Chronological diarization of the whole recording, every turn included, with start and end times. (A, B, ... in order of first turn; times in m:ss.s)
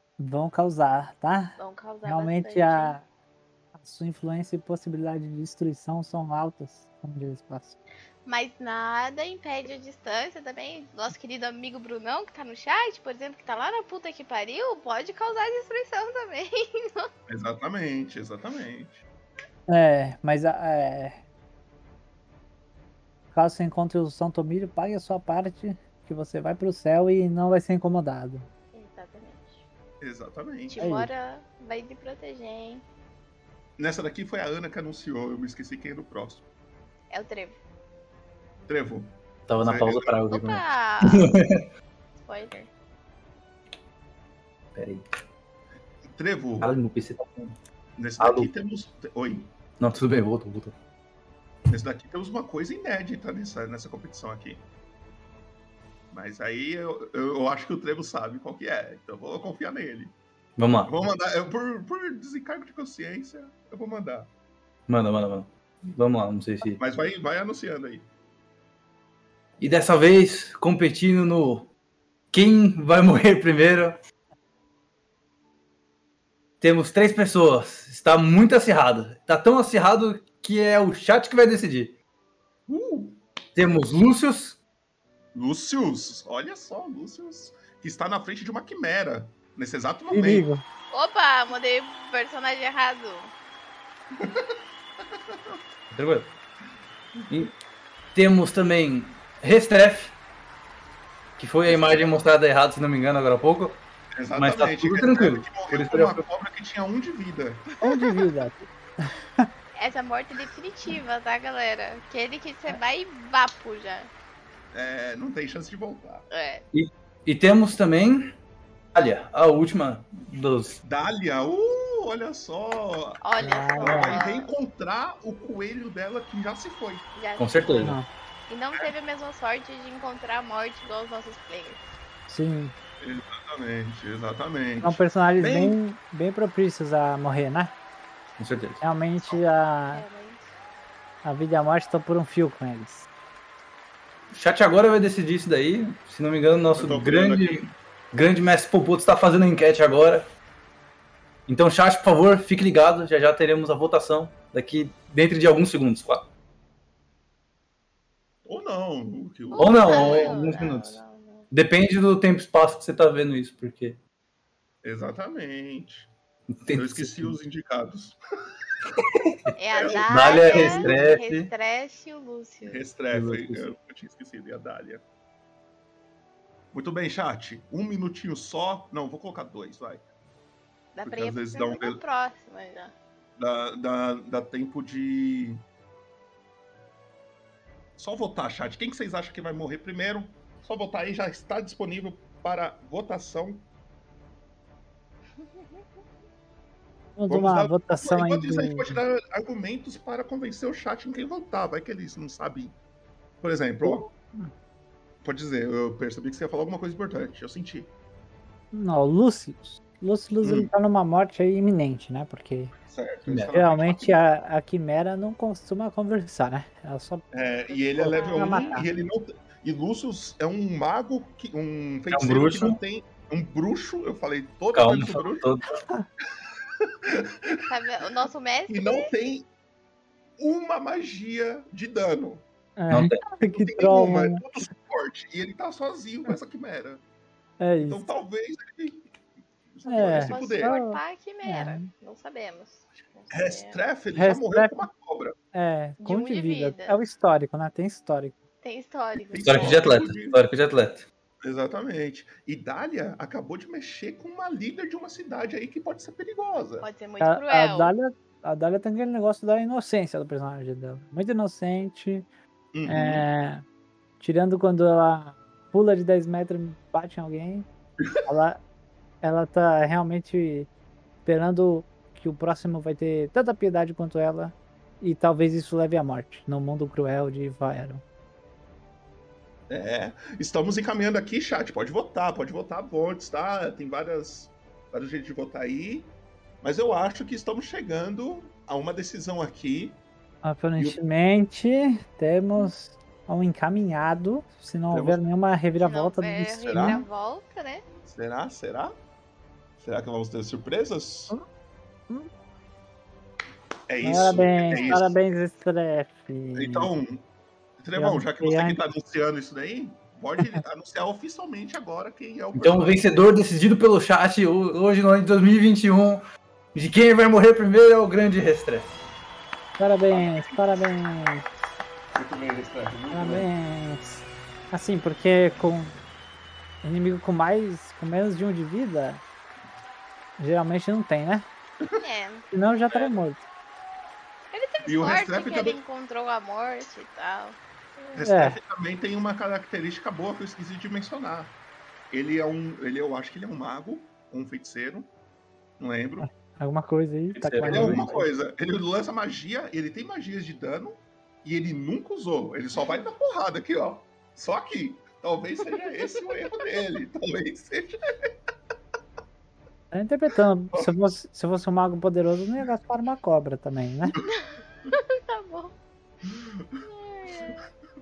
0:00.2-0:03.0 A
0:01.6-0:03.0 B
0:03.8-0:07.8 A
0:08.2-0:17.1 B
0:17.3-0:19.0 C
0:19.7-0:21.2 A
0:23.3-0:28.5 A
0:28.7-0:29.6 B
0:30.0-0:30.9 C
0:30.7-0:32.8 B
0:30.8-0:31.1 A
0:33.8-0:36.4 C
0:37.1-0:37.6 B
0:38.7-0:40.2 C
0:39.5-0:41.7 D
0:40.3-0:41.3 B
0:42.2-0:42.7 B
0:44.7-0:45.1 D
0:46.1-0:46.7 C
0:46.6-0:47.6 D
0:48.0-0:49.5 C
0:48.2-0:48.5 D
0:49.8-0:50.7 D
0:51.7-0:54.6 C
0:56.1-1:00.1 C
1:00.6-1:00.9 D
1:00.8-1:04.3 C
1:04.9-1:06.8 D
1:06.8-1:08.1 C
1:09.6-1:11.7 D
1:12.3-1:14.0 D
1:16.6-1:22.0 D
1:22.7-1:23.2 C
1:23.5-1:24.6 D
1:25.3-1:30.5 C
1:30.1-1:30.6 A
1:30.9-1:33.3 B
1:34.2-1:34.5 C
1:35.2-1:35.6 C
1:35.9-1:36.3 D
1:38.1-1:40.2 D
1:41.4-1:43.8 D
1:41.7-1:42.0 B
1:44.2-1:47.7 C
1:44.4-1:46.2 D
1:47.8-1:49.5 A
1:49.8-1:54.1 B
1:54.7-1:56.3 C
1:56.3-1:56.6 B
1:56.7-1:58.3 D
1:58.9-2:00.8 D
2:00.8-2:03.2 C
2:03.2-2:04.5 B
2:03.4-2:04.2 A
2:03.8-2:07.0 C
2:07.1-2:07.9 B
2:07.4-2:08.0 D
2:07.8-2:08.1 A
2:08.5-2:12.0 B
2:12.3-2:12.7 A
2:13.0-2:15.8 C
2:14.8-2:17.7 A
2:18.4-2:18.8 D
2:18.8-2:20.0 A
2:19.9-2:20.5 B
2:21.2-2:23.0 A
2:24.3-2:30.3 D
2:26.7-2:27.6 C
2:31.5-2:36.3 D
2:38.4-2:40.4 C
2:39.5-2:41.5 B
2:39.6-2:41.0 D
2:41.5-2:44.0 D
2:44.8-2:46.1 C
2:46.6-2:47.4 D
2:46.7-2:48.2 C
2:49.0-2:49.5 D
2:49.6-2:52.8 B
2:49.7-2:51.0 C
2:50.1-2:51.5 D
2:52.6-2:55.0 C
2:53.1-2:53.6 D
2:56.7-3:00.0 C
3:00.9-3:02.9 B
3:01.0-3:02.0 C
3:03.4-3:05.6 C
3:08.0-3:13.7 C
3:17.2-3:19.0 A
3:17.3-3:22.8 C
3:23.4-3:24.1 C
3:23.8-3:24.5 A
3:25.2-3:27.9 C
3:28.7-3:32.7 A
3:30.4-3:30.7 C
3:32.8-3:34.3 C
3:33.5-3:37.2 A
3:37.3-3:45.5 C
3:37.7-3:38.8 B
3:37.9-3:38.9 A
3:42.1-3:42.8 D
3:44.7-3:45.6 D
3:47.0-3:47.3 C
3:47.7-3:49.1 B
3:48.7-3:49.5 C
3:50.4-3:52.4 C
3:52.8-3:54.4 A
3:52.9-3:53.2 D
3:53.2-3:57.0 C
3:57.6-3:58.1 A
3:57.8-3:59.1 C
3:59.7-4:00.8 C
3:59.8-4:01.9 A
4:00.0-4:03.8 B
4:03.3-4:05.3 C
4:04.1-4:04.8 A
4:05.5-4:08.4 A
4:06.0-4:07.0 B
4:08.6-4:09.8 B
4:09.3-4:10.4 C
4:09.4-4:11.0 D
4:11.4-4:16.9 C
4:16.8-4:17.9 B
4:17.2-4:22.3 A
4:22.7-4:23.2 C
4:22.8-4:23.6 A
4:24.2-4:27.7 A
4:28.2-4:28.6 A
4:29.2-4:30.7 A
4:31.2-4:38.0 A
4:39.7-4:50.0 C
4:50.4-4:57.0 A
4:54.9-4:55.2 C
4:55.8-4:57.8 B
4:56.6-4:57.0 C
4:58.0-4:59.0 C
4:59.8-5:01.3 C
5:03.9-5:05.2 C
5:04.0-5:06.9 A
5:04.7-5:05.0 B
5:06.5-5:07.3 C
5:07.8-5:13.0 C
5:08.0-5:08.8 A
5:12.6-5:16.2 D
5:16.7-5:19.0 D
5:19.8-5:21.4 A
5:20.1-5:20.7 C
5:22.1-5:23.5 C
5:23.1-5:26.0 A
5:26.8-5:29.2 A
5:30.4-5:31.4 A
5:32.0-5:32.4 B
5:32.5-5:33.4 A
5:34.5-5:38.1 B
5:34.8-5:35.8 C
5:38.1-5:41.6 C
5:38.2-5:38.6 A
5:42.1-5:45.1 C
5:45.8-5:46.3 C
5:46.2-5:48.3 A
5:47.3-5:48.0 D
5:47.6-5:58.0 C
5:55.7-5:56.3 B
5:59.9-6:04.1 A
6:04.2-6:05.7 B
6:06.2-6:06.8 C
6:06.8-6:07.6 B